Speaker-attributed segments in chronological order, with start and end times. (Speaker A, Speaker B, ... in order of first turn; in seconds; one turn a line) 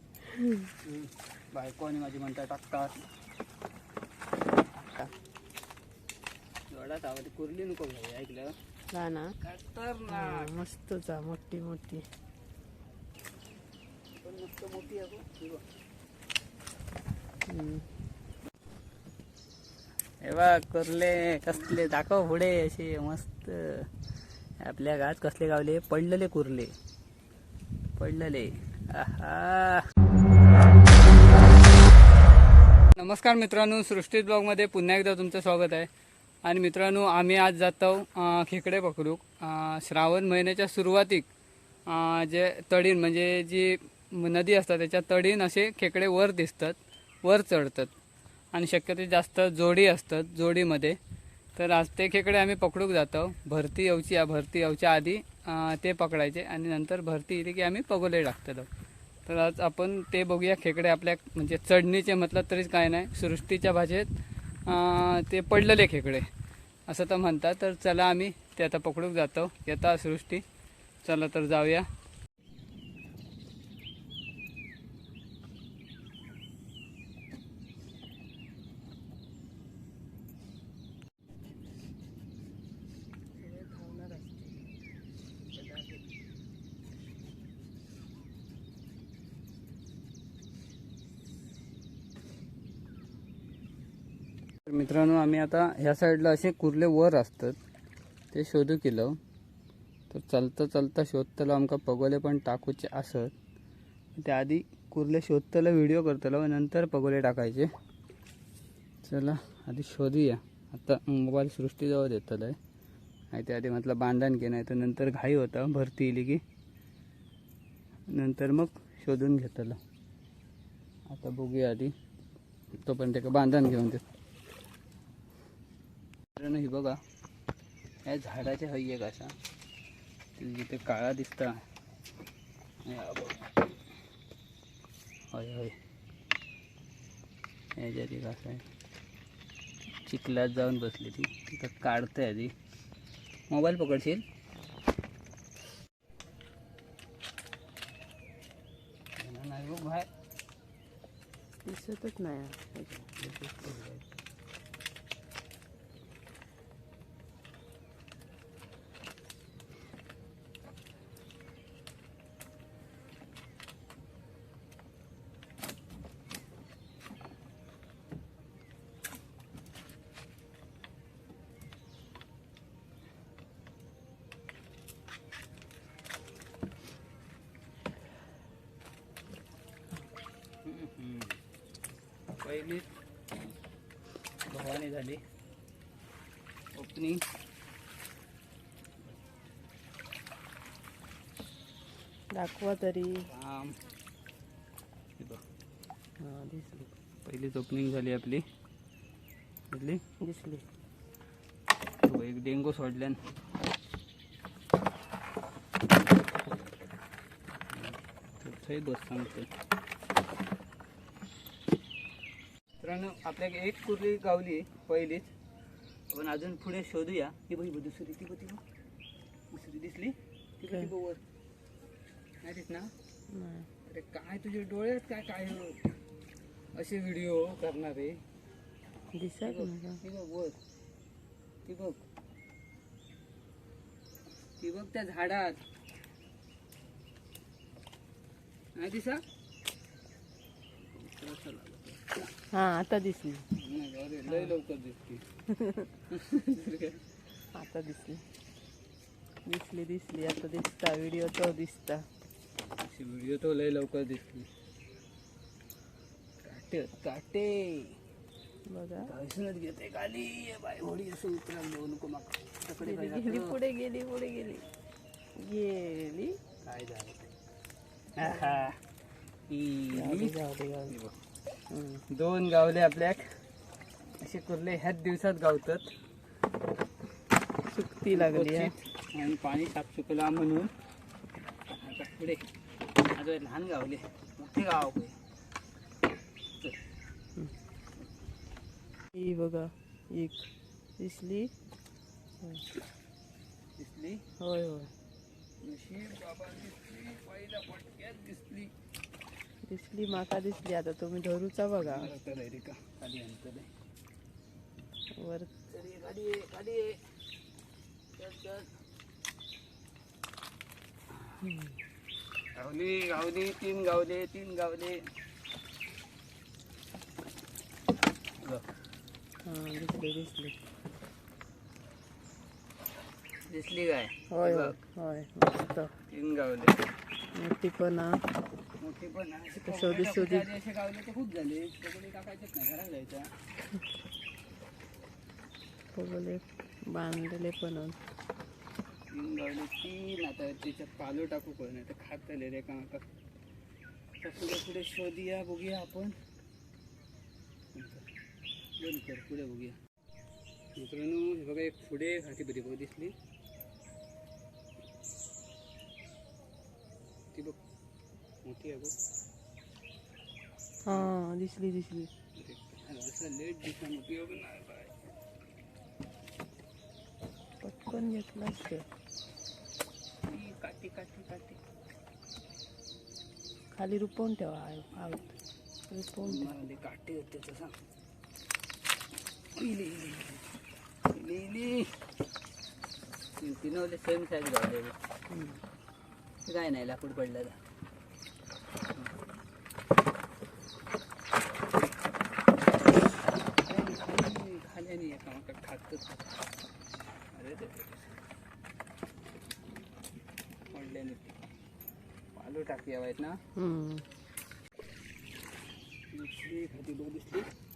Speaker A: 0.2-0.7
Speaker B: 0.8-3.0
Speaker A: 4.8-5.1
Speaker B: 6.7-8.6
Speaker A: 8.9-9.3
Speaker B: 9.4-10.5
Speaker A: 10.1-12.0
Speaker B: 14.2-15.7
Speaker A: 17.5-17.9
Speaker B: 20.2-23.9
Speaker B: 24.6-26.7
Speaker B: 28.0-29.9
Speaker B: 33.0-35.9
Speaker B: 36.4-41.3
Speaker B: 41.9-47.9
Speaker B: 48.5-51.0
Speaker B: 51.6-58.7
Speaker B: 59.3-64.1
Speaker B: 64.7-66.3
Speaker B: 66.9-70.4
Speaker B: 71.0-71.9
Speaker A: 83.4-84.3
Speaker B: 83.7-84.2
Speaker B: 85.5-86.0
Speaker B: 94.7-97.6
Speaker B: 98.3-99.2
Speaker B: 100.1-103.3
Speaker B: 104.2-107.7
Speaker B: 109.0-112.6
Speaker B: 113.3-116.4
Speaker B: 118.1-119.8
Speaker B: 121.1-121.9
Speaker B: 122.8-124.0
Speaker B: 126.4-127.0
Speaker B: 128.1-129.4
Speaker B: 130.4-131.6
Speaker B: 132.8-133.5
Speaker B: 135.3-135.8
Speaker B: 137.8-138.7
Speaker B: 140.1-142.5
Speaker B: 143.5-144.2
Speaker B: 149.2-150.1
Speaker A: 151.7-153.0
Speaker B: 153.0-154.1
Speaker B: 180.6-181.4
Speaker B: 182.4-182.9
Speaker B: 184.5-185.2
Speaker B: 186.8-187.2
Speaker A: 192.3-193.3
Speaker B: 193.3-193.8
Speaker A: 196.2-196.9
Speaker B: 197.2-198.4
Speaker B: 199.7-200.0
Speaker A: 200.2-200.7
Speaker B: 202.0-203.2
Speaker B: 207.7-209.5
Speaker B: 212.8-215.3
Speaker B: 216.1-218.6
Speaker B: 219.5-221.2
Speaker B: 222.4-222.9
Speaker A: 223.3-223.7
Speaker B: 223.9-225.9
Speaker B: 226.8-228.2
Speaker A: 229.1-230.0
Speaker B: 229.4-230.6
Speaker B: 231.7-232.0
Speaker B: 234.6-235.7
Speaker B: 238.8-239.2
Speaker B: 240.8-242.2
Speaker A: 242.5-243.5
Speaker B: 243.5-245.2
Speaker A: 244.3-244.5
Speaker A: 245.5-245.9
Speaker B: 246.1-247.0
Speaker A: 247.5-248.2
Speaker A: 249.4-252.1
Speaker B: 252.7-254.5
Speaker B: 256.4-258.0
Speaker A: 258.7-259.1
Speaker B: 259.0-263.6
Speaker A: 262.8-264.7
Speaker A: 265.4-266.4
Speaker B: 266.6-267.3
Speaker B: 268.2-268.8
Speaker A: 268.2-268.6
Speaker B: 269.5-271.2
Speaker A: 269.9-270.9
Speaker A: 271.7-272.0
Speaker B: 272.1-273.3
Speaker B: 274.2-275.9
Speaker A: 277.7-278.7
Speaker B: 278.1-280.7
Speaker B: 281.7-282.4
Speaker B: 283.1-285.2
Speaker A: 289.1-290.5
Speaker A: 291.0-291.5
Speaker A: 292.4-292.6
Speaker B: 293.8-294.2
Speaker A: 294.4-294.9
Speaker B: 295.6-298.7
Speaker A: 299.7-302.1
Speaker B: 301.8-303.7
Speaker A: 305.1-305.5
Speaker B: 305.7-307.0
Speaker B: 308.2-308.7
Speaker A: 311.4-311.8
Speaker B: 312.6-315.1
Speaker B: 318.4-318.7
Speaker A: 319.4-320.6
Speaker B: 323.4-324.8
Speaker A: 324.3-325.9
Speaker B: 326.1-326.7
Speaker A: 327.3-328.2
Speaker B: 328.8-333.4
Speaker A: 329.6-330.5
Speaker A: 335.9-338.0
Speaker B: 339.1-343.1
Speaker B: 344.2-346.1
Speaker B: 347.7-348.1
Speaker B: 348.8-349.8
Speaker B: 350.8-353.1
Speaker B: 358.4-358.9
Speaker A: 360.9-362.1
Speaker B: 362.4-365.0
Speaker A: 367.6-368.9
Speaker B: 370.3-371.6
Speaker A: 373.7-375.4
Speaker A: 375.9-376.5
Speaker B: 376.2-377.8
Speaker B: 379.6-380.5
Speaker B: 381.1-381.9
Speaker B: 383.4-385.0
Speaker A: 385.3-385.6
Speaker B: 386.4-387.6
Speaker B: 393.6-396.2
Speaker B: 397.3-398.1
Speaker B: 400.7-401.4
Speaker B: 402.4-403.4
Speaker A: 403.6-404.1
Speaker B: 406.1-407.5